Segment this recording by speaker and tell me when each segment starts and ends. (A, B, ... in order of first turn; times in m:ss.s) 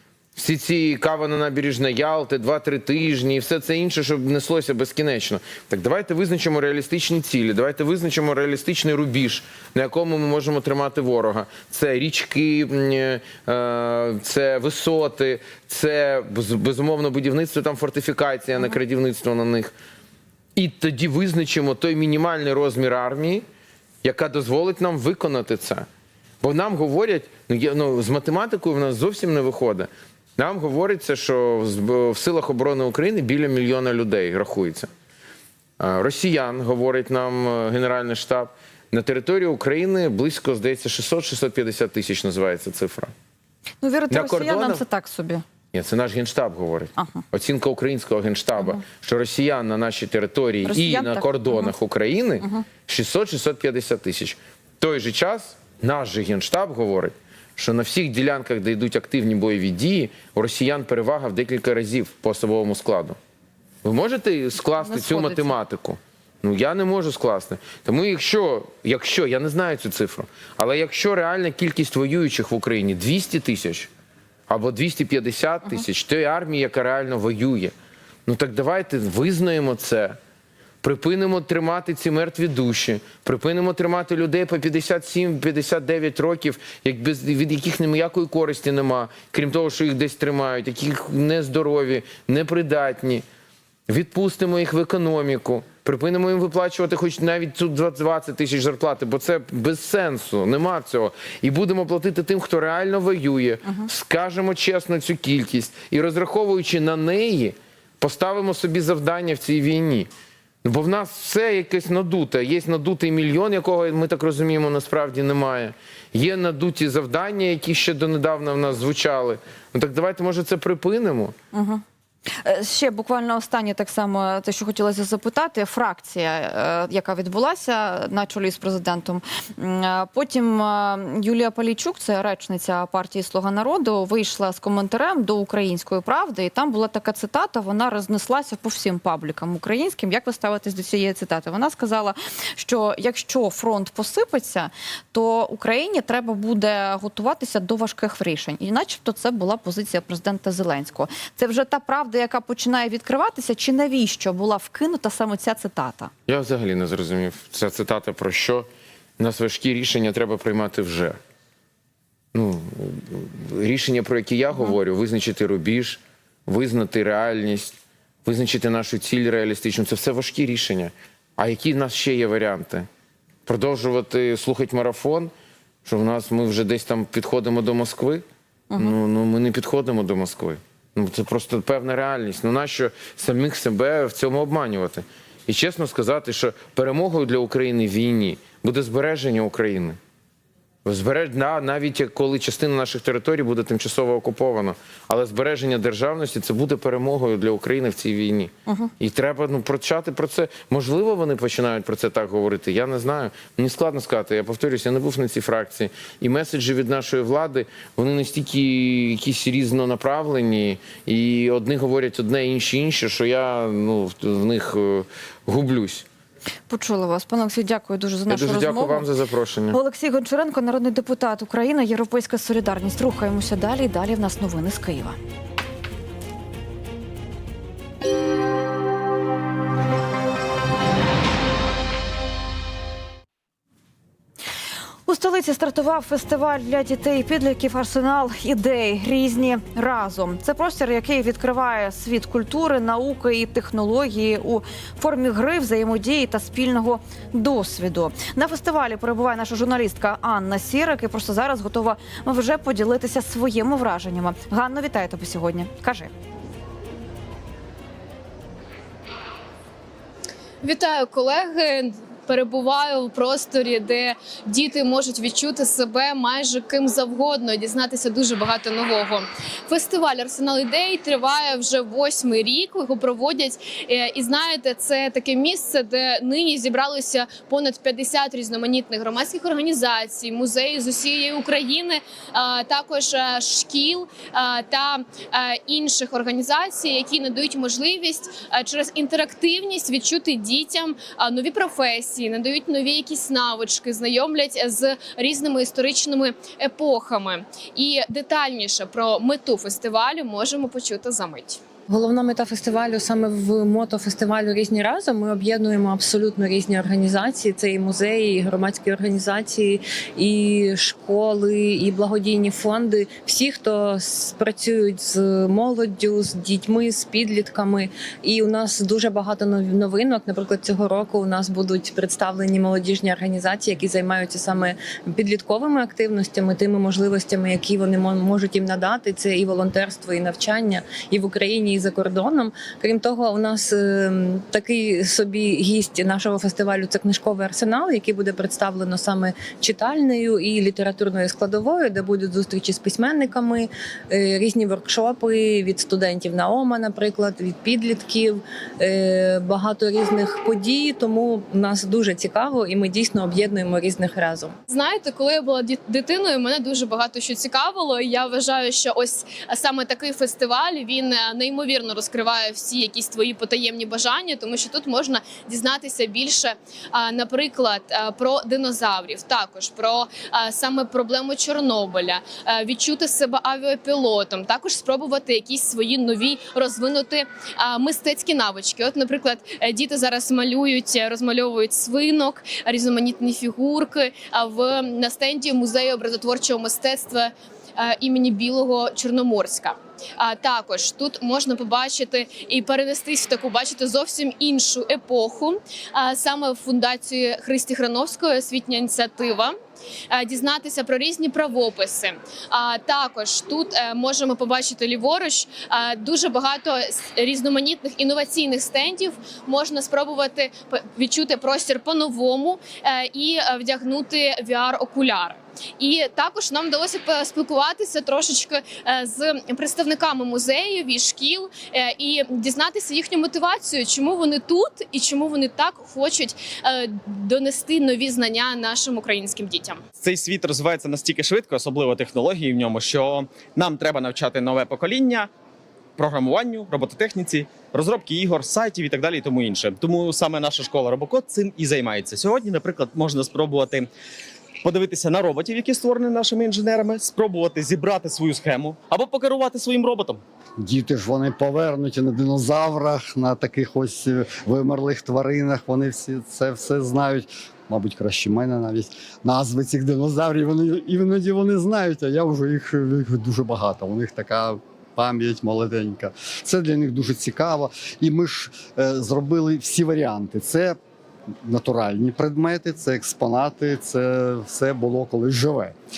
0:00.4-0:19.7 A
0:20.6-0:23.4 A
0:24.0-0:25.9 A
0:26.4-0:34.9 A
0:35.8-0:43.1 A
0:43.8-0:45.4 B
0:44.1-0:44.8 A
0:45.7-1:03.2 A
0:47.0-0:47.2 B
0:50.6-0:51.7 B
1:03.8-1:13.9 A
1:04.8-1:05.5 B
1:14.5-1:17.7 A
1:18.3-1:20.2 A
1:20.8-1:33.2 A
1:33.9-1:50.1 A
1:50.6-2:01.3 A
2:01.5-2:01.8 B
2:02.4-2:36.1 B
2:36.3-2:38.7 A
2:39.2-2:41.2 A
2:42.3-2:52.9 A
2:53.5-2:55.3 A
2:55.8-2:58.2 A
2:58.8-3:10.0 A
3:10.8-3:36.0 A
3:18.7-3:18.9 B
3:36.7-3:39.1 B
3:38.3-3:39.8 A
3:39.7-3:45.2 B
3:55.1-4:16.1 B
4:20.6-5:01.6 C
5:01.9-5:54.5 D
5:54.7-6:39.5 C
6:40.1-7:09.8 C
7:10.0-7:15.3 E
7:16.0-7:23.9 E
7:24.6-7:30.2 E
7:30.6-7:50.8 F
7:51.4-7:55.8 F